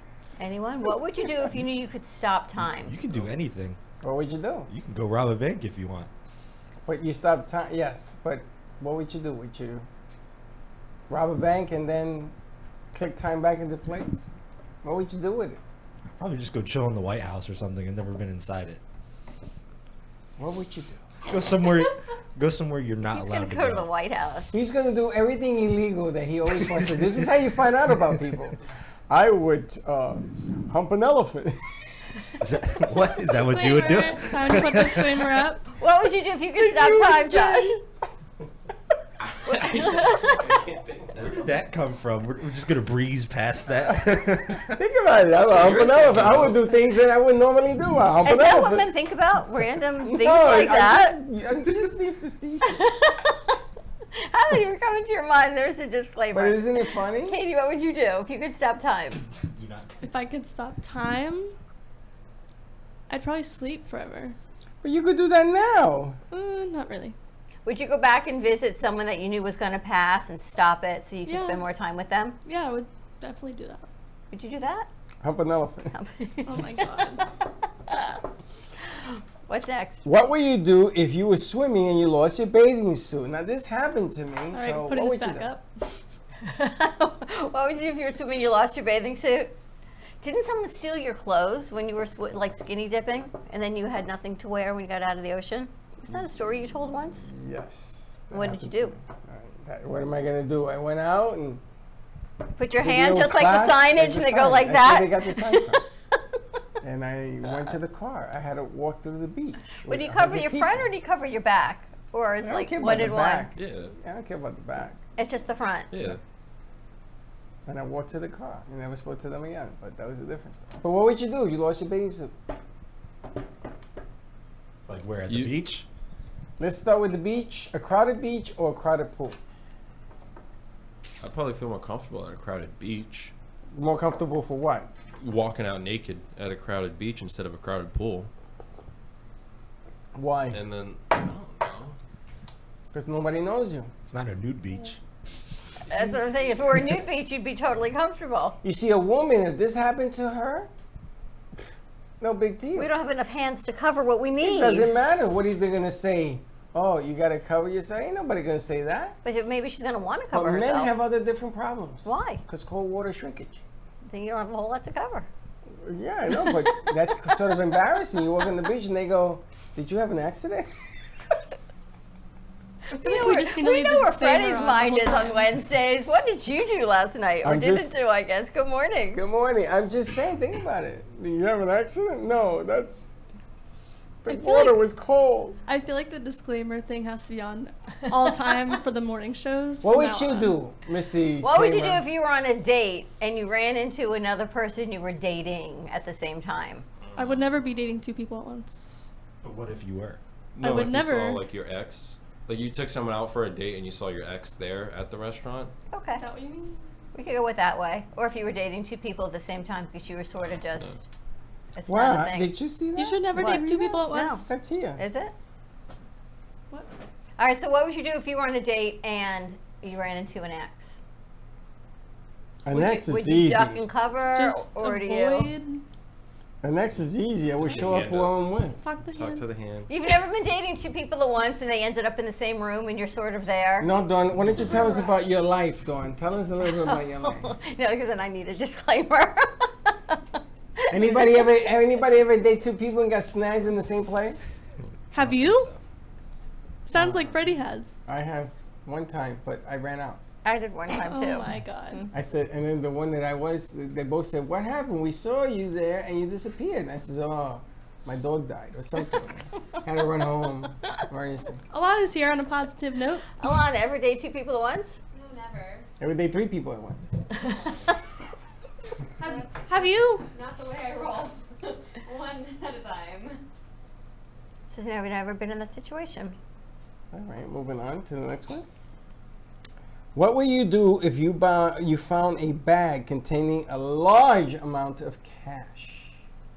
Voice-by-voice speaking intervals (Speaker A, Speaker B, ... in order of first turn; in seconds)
Speaker A: 0.4-3.0, 23.1-24.5, 35.7-37.8, 39.5-40.5, 48.2-51.2, 52.7-53.6, 54.1-59.2, 67.7-72.4, 74.3-74.9, 75.9-77.3, 77.9-78.2, 78.9-80.0, 86.4-89.6, 90.2-97.3, 98.3-99.0, 102.6-105.6, 109.8-113.5, 115.2-115.9, 145.9-148.6, 152.8-154.9, 159.2-160.9, 162.1-162.4, 164.1-165.3, 172.9-179.2, 191.4-196.8, 205.9-206.2, 207.1-211.1, 211.8-212.5, 213.3-215.3, 217.4-221.0, 222.7-225.5, 229.9-233.9, 236.8-240.2, 240.8-241.5, 250.4-252.1, 263.4-265.0, 267.4-267.9, 274.7-276.4
Speaker B: 2.8-3.8, 4.7-6.1, 16.2-18.8, 21.3-23.9, 26.8-27.0, 32.4-35.3, 41.1-44.8, 59.4-60.1, 124.9-125.9, 144.1-145.0, 199.4-200.2, 245.1-245.8
Speaker C: 4.0-4.7, 6.9-9.9, 11.1-12.3, 12.9-14.3, 14.8-15.6, 20.4-21.1, 24.5-31.6, 36.6-37.8, 44.5-48.9, 50.0-53.0, 56.3-57.4, 64.8-66.2, 75.2-75.9, 80.0-85.5, 97.3-101.6, 102.8-105.8, 106.8-110.9, 112.4-115.0, 117.7-122.3, 126.6-129.4, 133.7-134.9, 140.2-140.6, 142.9-143.9, 148.6-150.7, 152.2-152.9, 154.4-159.2, 160.3-163.6, 165.8-170.7, 177.4-178.0, 179.1-183.1, 184.2-185.6, 189.8-192.1, 211.9-215.0, 222.6-223.8, 226.6-228.8, 233.8-237.6, 240.9-244.4, 246.9-247.4, 248.1-250.2, 252.1-261.6, 266.0-267.1, 277.1-278.7, 280.1-286.2
Speaker D: 33.3-35.7, 60.0-61.5, 63.1-64.4, 66.3-67.2, 71.3-71.7, 72.5-73.9, 76.5-77.3, 84.5-85.7, 172.9-175.6, 184.3-184.8, 185.7-190.6, 197.2-198.9, 200.6-201.4, 206.2-206.8, 212.9-214.5, 224.3-225.8, 228.8-229.4, 245.1-245.7, 246.9-248.0, 250.9-252.1, 261.7-263.2, 269.2-270.3
Speaker E: 39.2-41.5, 45.3-46.6, 113.6-113.9, 115.9-116.2, 125.3-125.6, 131.2-133.3, 135.2-138.3, 140.5-142.0, 200.6-205.7, 227.7-228.4, 229.1-229.9
Speaker F: 265.1-265.9, 269.2-273.4